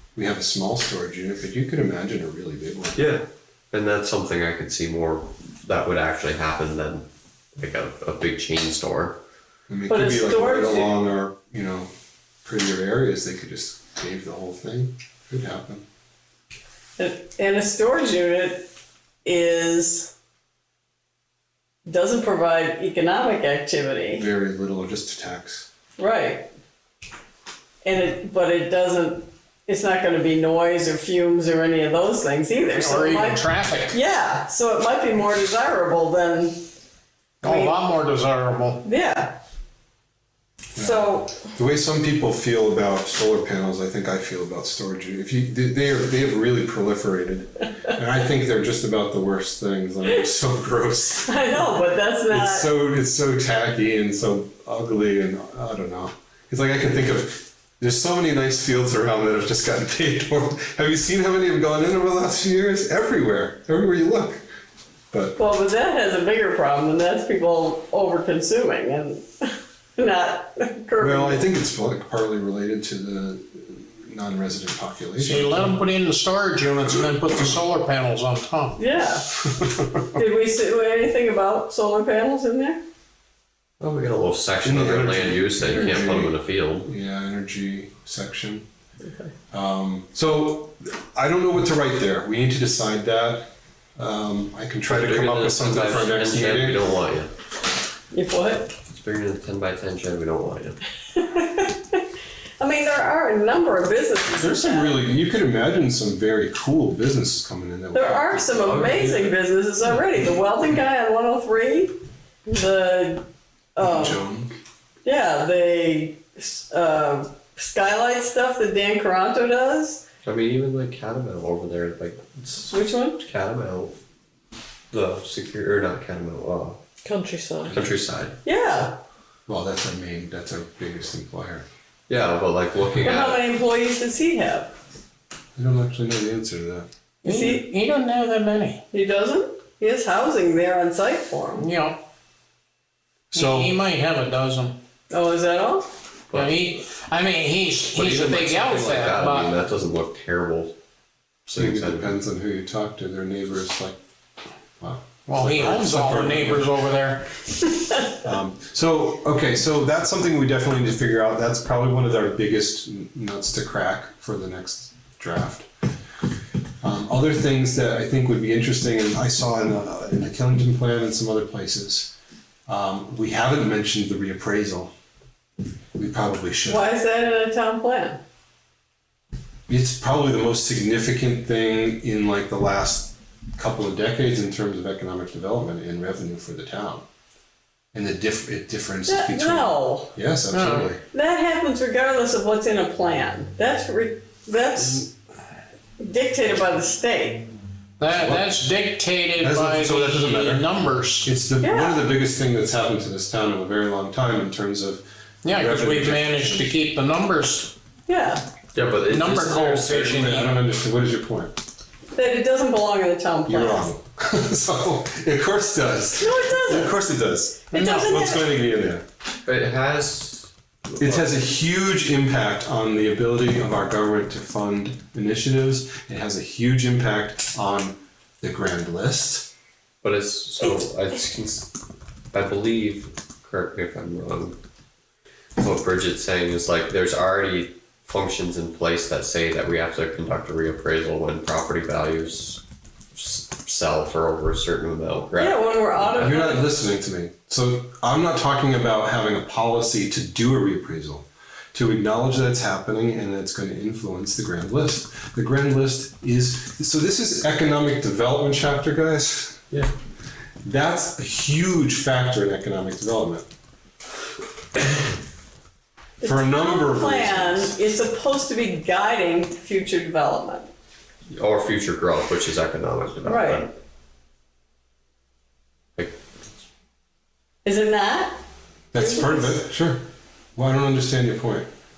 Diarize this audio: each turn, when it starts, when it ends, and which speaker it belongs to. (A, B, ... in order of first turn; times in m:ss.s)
0:00.2-0:03.0 A
0:03.0-0:07.0 B
0:07.6-0:09.2 B
0:09.7-0:11.9 A
0:09.9-0:11.0 C
0:12.4-0:15.8 A
0:17.0-0:18.6 C
0:19.2-0:20.1 C
0:21.8-0:24.2 C
0:24.1-0:25.7 A
0:26.0-0:26.5 C
0:27.8-0:36.6 C
0:32.7-0:34.0 D
0:37.4-0:38.8 D
0:37.4-0:37.8 C
0:38.8-0:39.4 C
0:40.7-0:41.4 C
0:40.7-0:51.7 A
0:51.2-0:52.7 C
0:52.3-1:04.4 A
1:05.4-1:11.5 C
1:11.0-1:15.8 A
1:15.2-1:18.8 D
1:18.8-1:19.3 C
1:19.4-1:20.1 A
1:20.1-1:22.8 C
1:23.8-1:26.9 B
1:24.6-1:28.6 A
1:29.5-1:36.9 A
1:34.9-1:37.3 B
1:38.1-1:38.7 C
1:38.9-1:40.8 B
1:41.1-1:42.0 C
1:42.6-1:45.0 C
1:44.4-1:49.1 A
1:47.9-1:51.9 C
1:48.6-1:49.3 B
1:52.4-1:53.2 C
1:53.8-1:54.2 C
1:53.8-1:54.5 A
1:55.0-2:00.0 C
2:00.2-2:04.0 B
2:02.7-2:03.2 C
2:04.9-2:06.8 B
2:07.1-2:07.7 C
2:07.6-2:08.4 B
2:08.4-2:09.0 C
2:09.5-2:11.6 A
2:12.1-2:13.4 B
2:13.0-2:14.7 C
2:15.6-2:16.9 A
2:17.2-2:17.6 C
2:17.2-2:18.8 D
2:18.9-2:21.7 C
2:21.6-2:22.0 D
2:23.3-2:23.8 A
2:23.3-2:24.8 D
2:25.1-2:25.9 C
2:26.3-2:26.6 B
2:26.3-2:29.5 D
2:27.9-2:30.7 B
2:31.5-2:32.1 B
2:31.5-2:34.0 A
2:34.8-2:36.7 A
2:35.2-2:37.3 D
2:38.1-2:45.7 A
2:46.8-2:52.1 A
2:52.7-2:54.9 A
2:56.0-2:56.9 A
2:56.6-2:58.2 C
2:59.7-3:07.0 A
3:07.9-3:11.0 A
3:09.0-3:10.1 C
3:10.5-3:10.9 D
3:11.1-3:15.1 C
3:16.0-3:17.5 C
3:18.0-3:21.3 D
3:18.1-3:18.6 A
3:19.4-3:20.7 A
3:21.2-3:26.7 A
3:21.6-3:22.0 C
3:25.4-3:27.7 D
3:28.1-3:28.4 C
3:28.7-3:30.2 B
3:29.1-3:30.5 D
3:29.9-3:31.6 A
3:32.1-3:33.9 C
3:33.5-3:39.0 A
3:36.1-3:37.0 C
3:37.7-3:38.2 D
3:37.7-3:38.5 C
3:39.4-3:41.3 B
3:41.0-3:49.5 A
3:50.0-3:51.7 B
3:52.3-3:54.6 B
3:55.6-4:02.6 B
4:03.2-4:06.1 B
4:05.4-4:06.7 C
4:06.0-4:19.8 A
4:20.6-4:23.5 A
4:26.2-4:30.7 C
4:26.2-4:27.8 A
4:31.3-4:33.7 B
4:33.2-4:33.6 C
4:37.6-4:38.4 C
4:38.9-4:41.7 A
4:38.9-4:39.6 C